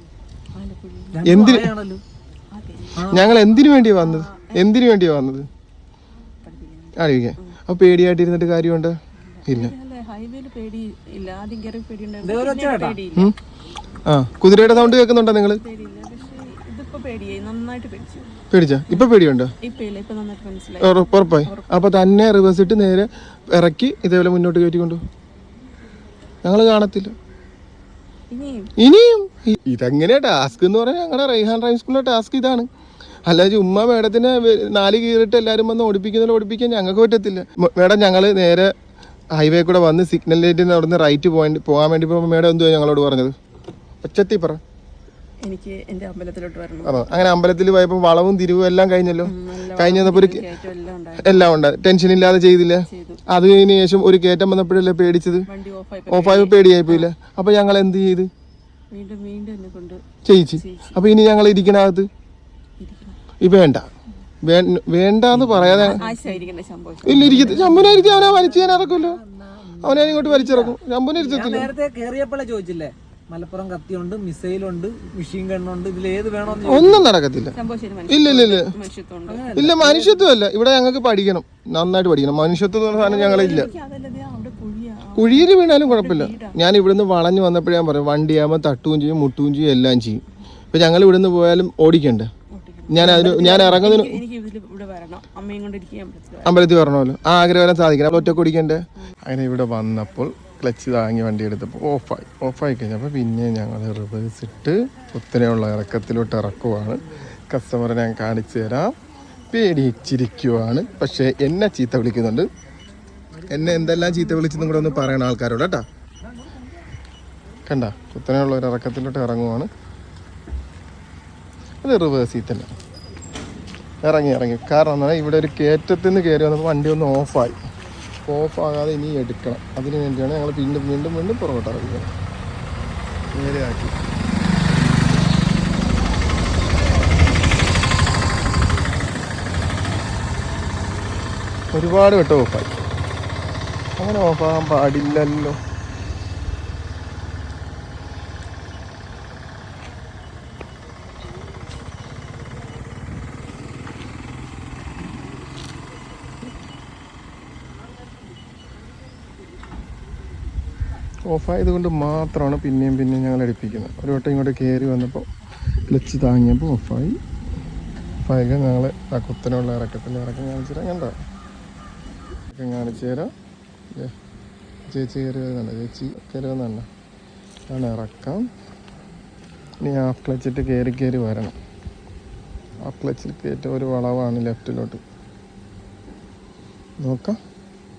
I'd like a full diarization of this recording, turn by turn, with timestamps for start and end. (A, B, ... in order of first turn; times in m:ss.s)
0:00.6-0:01.6 A
0:01.1-0:02.0 B
0:01.2-0:01.7 C
0:02.5-0:03.5 A
0:03.0-0:03.3 B
0:03.1-0:05.5 C
0:04.0-0:04.5 A
0:06.4-0:07.6 A
0:07.0-0:08.9 C
0:09.3-0:13.3 A
0:09.5-0:09.7 C
0:12.2-0:13.0 B
0:14.1-0:15.6 C
0:14.5-0:18.3 A
0:18.5-0:19.5 C
0:19.6-0:21.7 A
0:20.8-0:25.0 C
0:26.4-0:27.1 C
0:28.3-0:28.7 A
0:28.8-0:32.7 C
0:33.3-0:38.7 C
0:39.4-0:43.3 C
0:44.0-0:44.6 C
0:45.4-0:47.0 A
0:46.8-0:50.4 C
0:49.2-0:51.5 A
0:51.2-0:55.4 C
0:52.9-0:53.2 A
0:55.5-0:57.1 A
0:56.1-0:58.3 C
0:58.9-1:00.0 A
1:00.3-1:02.1 C
1:00.6-1:01.0 A
1:02.8-1:03.2 A
1:03.4-1:03.8 C
1:04.5-1:06.0 C
1:05.3-1:06.4 B
1:05.8-1:07.6 A
1:07.1-1:09.2 C
1:07.1-1:17.1 B
1:09.8-1:11.7 C
1:16.5-1:16.9 A
1:16.7-1:17.5 C
1:17.6-1:19.5 A
1:18.1-1:18.6 C
1:19.3-1:20.3 B
1:19.6-1:23.7 C
1:22.9-1:26.6 A
1:25.2-1:32.3 C
1:32.5-1:36.6 A
1:32.9-1:34.2 C
1:36.4-1:48.9 C
1:38.1-1:38.4 A
1:49.5-1:52.5 C
1:53.5-1:55.8 C
1:53.6-1:54.1 B
1:57.7-1:59.7 C
2:01.8-2:02.7 C
2:04.0-2:07.6 C
2:08.3-2:12.1 C
2:13.3-2:14.0 C
2:21.7-2:22.9 C
2:24.0-2:25.6 C
2:41.3-2:45.3 C
2:45.9-2:47.2 C
2:48.3-2:51.1 C
2:52.5-2:53.3 C
2:54.9-2:56.9 C
2:57.7-2:58.5 C
2:59.8-3:01.6 C
3:02.8-3:05.0 C
3:07.0-3:07.4 C